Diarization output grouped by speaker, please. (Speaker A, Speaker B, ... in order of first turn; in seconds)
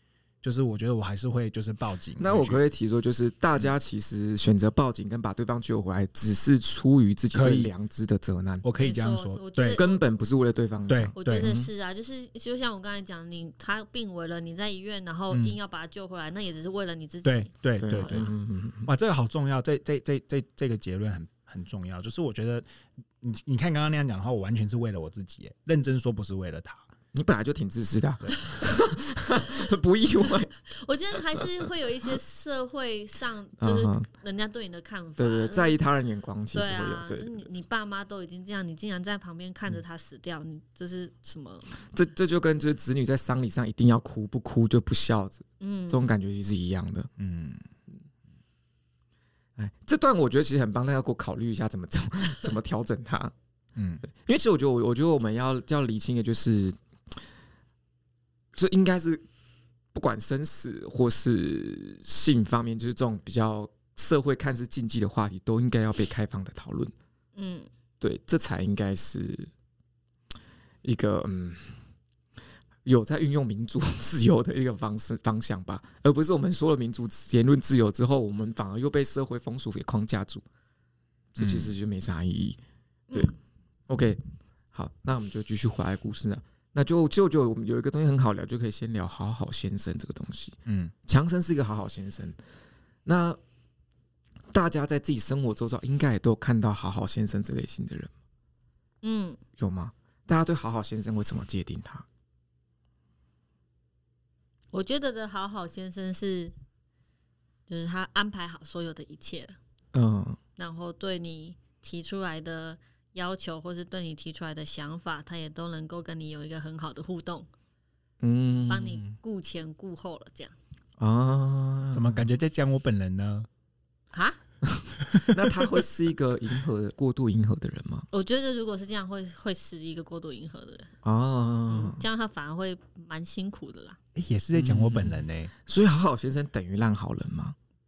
Speaker A: 0.4-2.6, 7.3-7.7, 8.6-9.8, 10.9-11.5, 15.3-15.6, 17.2-18.3, 18.8-22.6, 23.2-26.9, 28.2-28.5, 47.2-47.6, 53.8-54.0, 81.4-81.7, 90.7-90.9, 121.9-123.5, 125.1-125.3, 134.1-135.5
Speaker B: 2.2-8.6, 9.8-11.7, 17.8-18.9, 27.1-30.5, 31.1-31.5, 33.6-34.1, 35.2-37.5, 41.9-47.1, 49.5-53.3, 54.0-57.2, 58.5-59.2, 59.9-66.9, 68.0-69.5, 70.8-71.7, 72.8-80.4, 81.3-82.6, 83.9-84.2, 84.7-92.4, 93.0-93.4, 94.5-98.1, 99.6-102.1, 109.9-110.4, 118.2-119.1, 121.0-122.2, 124.6-128.1, 131.0-132.0, 134.5-137.6
Speaker C: 8.8-10.1, 11.2-18.3, 30.7-35.8, 36.5-41.7, 45.6-46.1, 67.3-67.7, 99.0-99.4, 104.7-106.5, 107.7-109.6, 110.6-117.5, 118.7-120.5, 124.1-124.4, 128.1-130.9, 131.7-134.0